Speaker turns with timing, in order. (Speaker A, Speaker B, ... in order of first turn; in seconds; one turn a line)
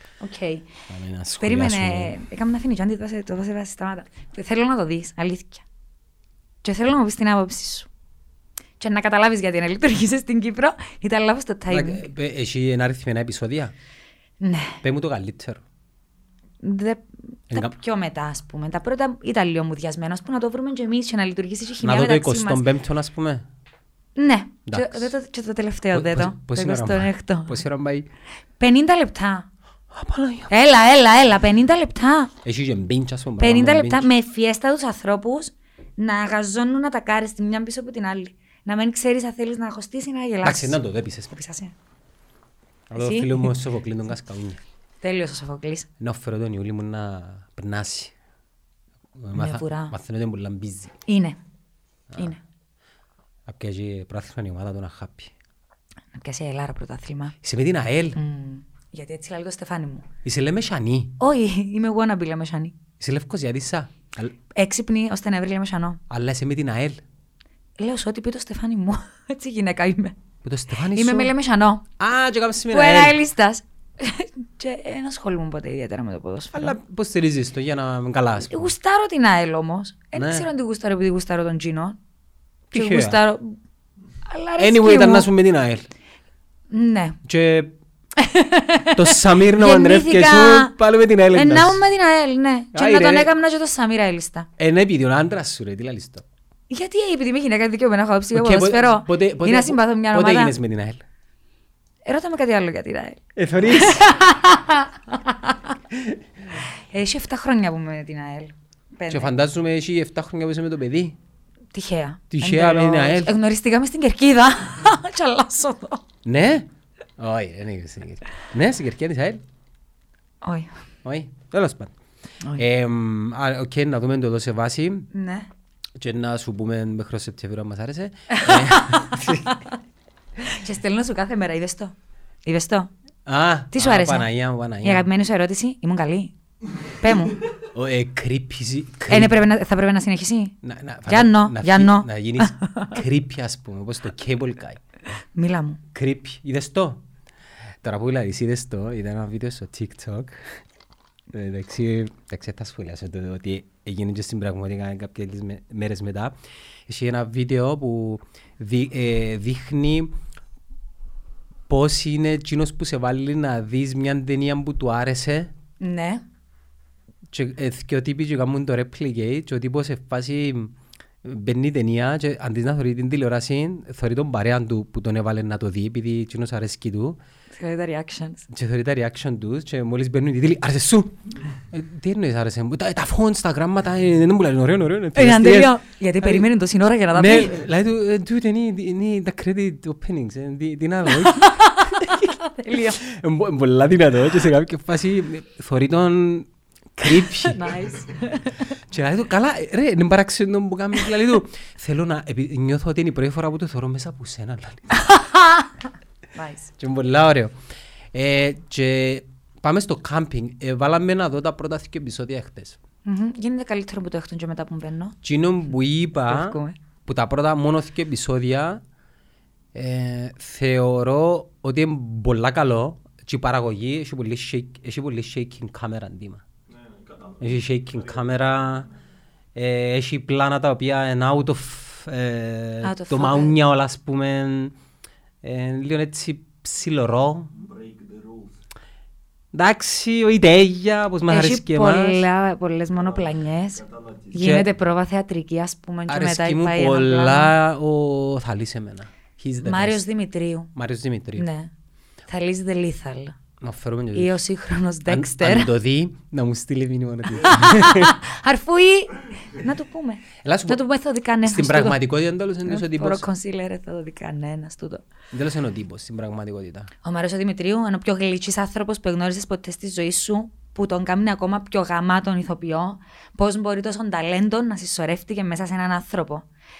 Speaker A: 0.2-0.7
Speaker B: 0.9-2.2
Speaker A: 1.4-5.6
Speaker A: 6.6-7.9
Speaker A: 8.8-12.1
Speaker B: 11.7-13.7
Speaker A: 14.4-14.8
Speaker B: 14.8-15.6
Speaker A: 16.6-22.6
Speaker B: 21.8-23.4
Speaker A: 24.1-27.6
Speaker B: 24.7-25.1
Speaker B: 25.9-28.1
Speaker A: 28.6-29.5
Speaker B: 29.9-30.5
Speaker A: 30.5-32.3
Speaker B: 32.4-34.1
Speaker A: 33.4-40.8
Speaker B: 40.4-41.3
Speaker A: 41.3-41.7
Speaker B: 42.9-44.6
Speaker A: 42.9-43.5
Speaker A: 45.0-45.9
Speaker B: 46.0-48.1
Speaker B: 49.2-50.9
Speaker A: 49.3-49.9
Speaker A: 51.0-51.4
Speaker B: 52.1-52.3
Speaker B: 53.5-55.3
Speaker A: 56.1-57.4
Speaker B: 57.4-58.2
Speaker A: 58.1-60.1
Speaker B: 60.2-61.1
Speaker A: 61.2-62.8
Speaker B: 63.0-64.3
Speaker A: 64.5-66.0
Speaker B: 66.1-67.0
Speaker A: 67.8-70.2
Speaker B: 70.4-71.3
Speaker A: 70.9-71.8
Speaker B: 72.0-73.2
Speaker A: 72.7-76.8
Speaker B: 76.5-78.7
Speaker A: 78.5-82.0
Speaker B: 80.1-80.5
Speaker B: 82.7-83.2
Speaker A: 82.7-83.6
Speaker A: 84.2-85.3
Speaker B: 84.6-85.9
Speaker A: 86.7-87.2
Speaker B: 87.2-87.7
Speaker A: 88.2-90.8
Speaker B: 88.9-91.8
Speaker A: 91.3-94.5
Speaker B: 92.7-93.3
Speaker B: 94.6-96.2
Speaker A: 96.7-100.5
Speaker B: 98.3-101.0
Speaker A: 102.0-105.8
Speaker B: 103.3-104.1
Speaker B: 105.9-106.2
Speaker A: 106.9-109.3
Speaker B: 109.1-111.2
Speaker A: 111.7-116.0
Speaker B: 112.3-113.3
Speaker B: 116.2-119.4
Speaker A: 120.4-120.7
Speaker B: 121.0-121.9
Speaker B: 122.5-125.1
Speaker A: 125.1-125.5
Speaker B: 126.0-129.5
Speaker A: 128.3-129.7
Speaker A: 130.4-131.9
Speaker A: 132.4-132.9
Speaker B: 133.2-135.1
Speaker A: 133.7-134.3
Speaker A: 134.8-136.3
Speaker A: 136.8-137.4
Speaker B: 137.7-139.3
Speaker A: 139.1-140.6
Speaker B: 140.6-144.8
Speaker A: 141.1-143.0
Speaker A: 145.3-145.8
Speaker B: 145.9-147.0
Speaker B: 147.8-150.6
Speaker B: 151.3-156.3
Speaker B: 156.9-160.1
Speaker B: 161.7-165.5
Speaker A: 165.8-166.2
Speaker B: 167.3-177.2
Speaker A: 177.5-178.4
Speaker B: 178.5-186.5
Speaker A: 185.1-187.6
Speaker B: 187.1-192.4
Speaker A: 191.1-193.0
Speaker B: 193.0-197.8
Speaker A: 197.4-198.7
Speaker B: 198.7-205.1
Speaker A: 204.9-205.7
Speaker A: 206.3-206.7
Speaker B: 206.8-207.5
Speaker B: 208.1-212.8
Speaker A: 213.0-215.2
Speaker B: 215.2-218.8
Speaker A: 216.2-216.8
Speaker B: 219.7-226.4
Speaker C: 226.7-229.0
Speaker B: 227.4-228.9
Speaker B: 229.5-234.8
Speaker A: 232.8-233.6
Speaker B: 235.4-237.5
Speaker C: 237.5-238.6
Speaker B: 239.5-242.2
Speaker A: 241.3-243.8
Speaker C: 242.9-244.6
Speaker A: 244.3-247.5
Speaker B: 244.3-244.7
Speaker B: 246.1-250.0
Speaker A: 249.6-250.7
Speaker B: 250.7-251.5
Speaker A: 251.3-251.7
Speaker A: 252.3-253.3
Speaker B: 253.6-254.4
Speaker A: 254.1-255.7
Speaker B: 255.1-258.2
Speaker A: 257.4-262.0
Speaker B: 260.4-260.8
Speaker B: 261.4-263.2
Speaker A: 262.6-265.0
Speaker B: 265.3-266.9
Speaker A: 267.0-276.5